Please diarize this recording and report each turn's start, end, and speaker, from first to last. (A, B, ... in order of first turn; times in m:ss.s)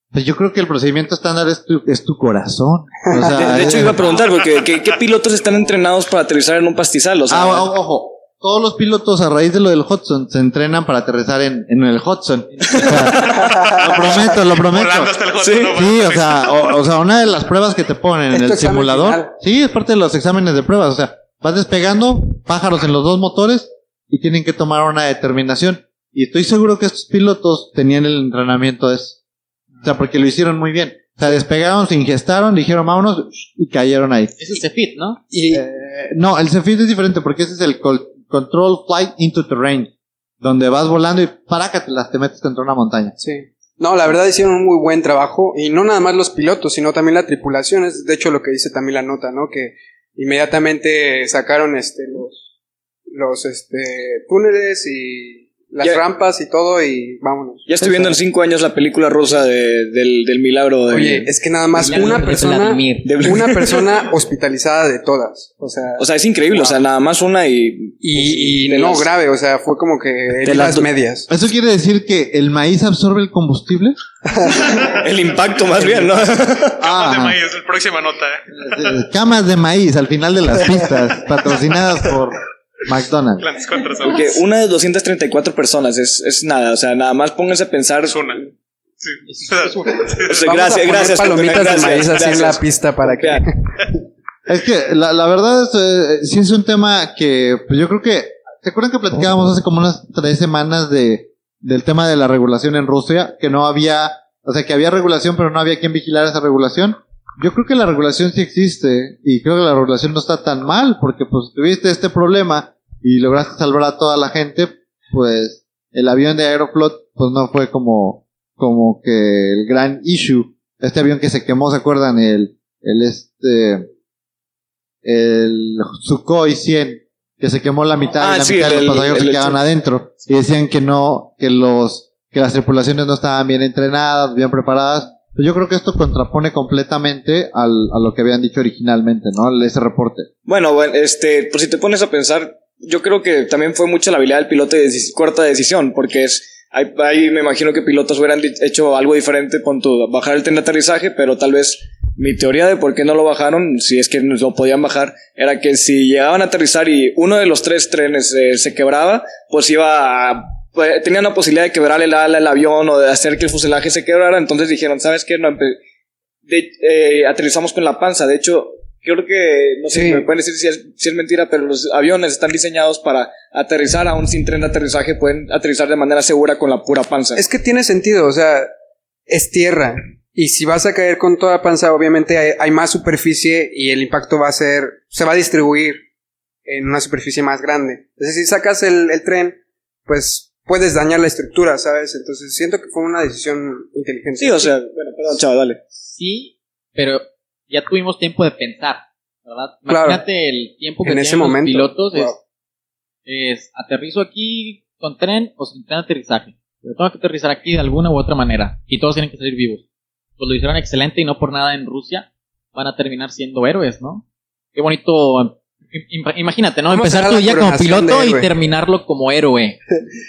0:00.1-0:04.0 A
0:03.3-0:07.7 B
0:03.4-0:04.2 C
0:07.3-0:15.1 A
0:12.6-0:12.9 C
0:12.7-0:13.6 B
0:13.4-0:13.9 D
0:14.0-0:16.6 E
0:15.4-0:15.7 B
0:15.7-0:29.2 A
0:18.3-0:19.3 D
0:29.8-0:34.3 A
0:34.4-0:35.2 C
0:35.3-0:35.6 D
0:35.5-0:39.9 A
0:40.4-0:43.1 A
0:43.2-0:52.4 D
0:53.1-0:58.2 D
0:57.7-1:01.3 B
1:00.9-1:06.8 D
1:01.7-1:03.1 C
1:03.0-1:03.8 B
1:06.0-1:09.1 B
1:08.0-1:11.3 D
1:10.4-1:10.9 B
1:11.3-1:14.0 A
1:14.3-1:14.6 D
1:14.7-1:16.8 B
1:16.8-1:18.4 E
1:16.8-1:17.4 A
1:18.6-1:23.5 A
1:23.4-1:24.3 E
1:24.0-1:28.3 B
1:28.0-1:28.4 E
1:29.0-1:30.4 E
1:29.3-1:30.0 C
1:30.3-1:33.4 B
1:30.4-1:33.6 D
1:34.5-2:03.9 A
2:05.0-2:20.3 A
2:08.2-2:09.6 B
2:20.4-2:45.8 B
2:46.4-2:57.4 B
2:49.9-2:50.2 D
2:57.3-2:58.7 D
2:59.3-3:06.0 D
3:06.6-3:14.7 D
3:14.4-3:15.8 B
3:16.0-3:22.4 C
3:19.9-3:20.2 D
3:21.0-3:22.4 D
3:23.2-3:29.8 C
3:30.4-3:39.8 C
3:36.9-3:38.5 D